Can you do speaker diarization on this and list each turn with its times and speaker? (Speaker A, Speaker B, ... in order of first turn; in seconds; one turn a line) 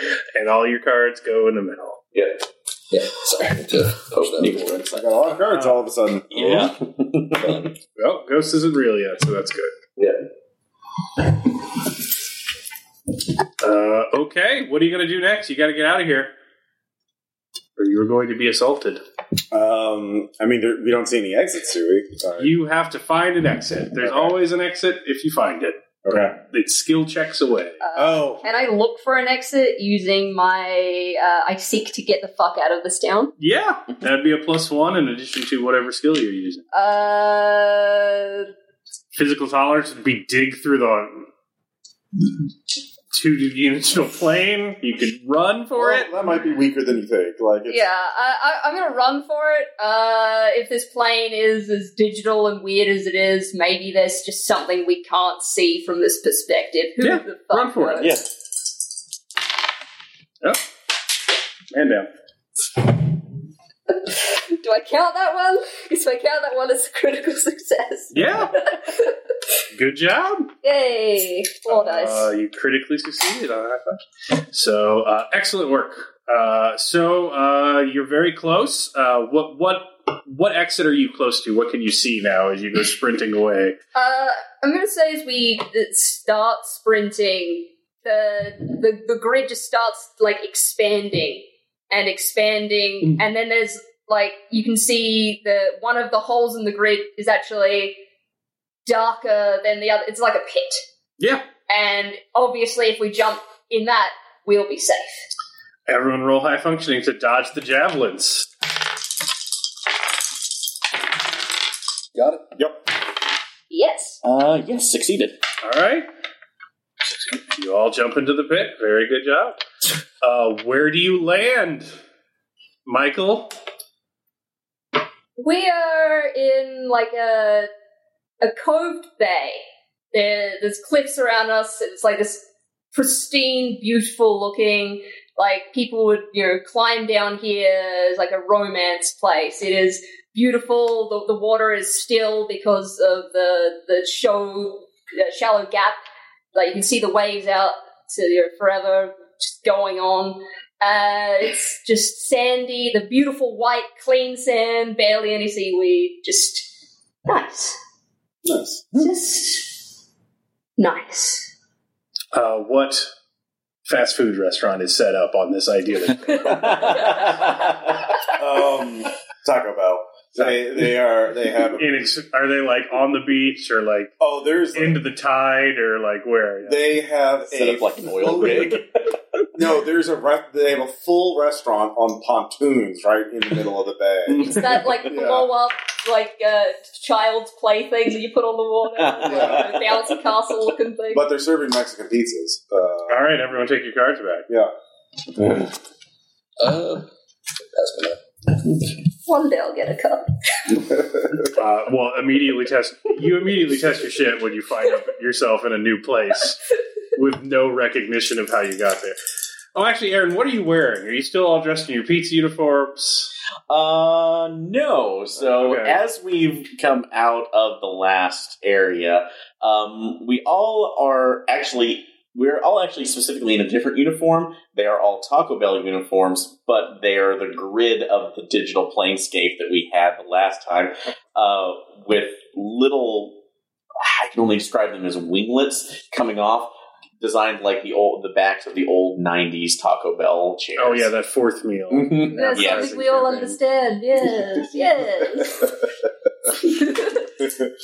Speaker A: 0.3-2.0
Speaker B: 2.1-2.4
Speaker C: 2.9-4.7
Speaker B: 4.1-5.4
Speaker D: 4.9-6.7
Speaker C: 6.3-7.7
Speaker B: 6.8-7.5
Speaker A: 8.0-9.7
Speaker A: 13.6-16.3
Speaker A: 17.8-19.0
Speaker D: 19.5-22.5
Speaker A: 22.4-27.8
Speaker D: 24.0-24.3
Speaker D: 26.1-26.4
Speaker E: 27.8-33.3
Speaker D: 27.9-28.4
Speaker A: 33.4-36.6
Speaker E: 36.7-38.5
Speaker A: 39.1-41.3
Speaker A: 43.1-46.1
Speaker D: 45.8-47.8
Speaker E: 47.7-58.1
Speaker A: 57.0-58.1
Speaker B: 58.0-58.3
Speaker A: 61.7-62.1
Speaker E: 63.9-69.2
Speaker A: 68.1-68.5
Speaker A: 69.7-70.5
Speaker E: 70.6-72.3
Speaker A: 71.7-74.0
Speaker A: 74.5-83.8
Speaker E: 83.9-98.0
Speaker E: 98.8-100.8
Speaker A: 101.2-101.5
Speaker E: 101.7-105.2
Speaker A: 105.9-108.5
Speaker C: 112.1-112.5
Speaker E: 113.7-114.2
Speaker B: 114.2-115.4
Speaker A: 115.6-116.1
Speaker A: 117.5-119.6
Speaker A: 120.2-121.9
Speaker A: 122.8-123.5
Speaker E: 125.4-127.7
Speaker E: 128.4-129.6
Speaker E: 130.1-145.9
Speaker E: 146.5-156.7
Speaker E: 157.2-157.7
Speaker D: 158.4-158.9
Speaker E: 158.9-159.7
Speaker E: 160.8-161.4
Speaker A: 162.3-163.1
Speaker A: 163.8-167.2
Speaker E: 166.5-166.9
Speaker B: 166.6-167.7
Speaker D: 168.3-171.9
Speaker A: 171.8-174.2
Speaker D: 174.2-175.0
Speaker A: 174.7-176.8
Speaker D: 176.7-178.8
Speaker B: 177.5-178.9
Speaker D: 179.5-185.5
Speaker E: 184.3-191.3
Speaker B: 189.0-190.0
Speaker D: 189.2-189.7
Speaker D: 191.1-193.2
Speaker A: 193.1-194.5
Speaker C: 196.6-197.1
Speaker C: 197.7-198.2
Speaker E: 199.2-200.3
Speaker A: 201.5-206.6
Speaker A: 207.1-209.2
Speaker A: 209.7-213.3
Speaker B: 213.7-233.4
Speaker A: 215.4-216.0
Speaker B: 234.0-241.1
Speaker A: 240.8-243.5
Speaker B: 241.9-243.5
Speaker E: 242.3-245.7
Speaker E: 246.5-247.3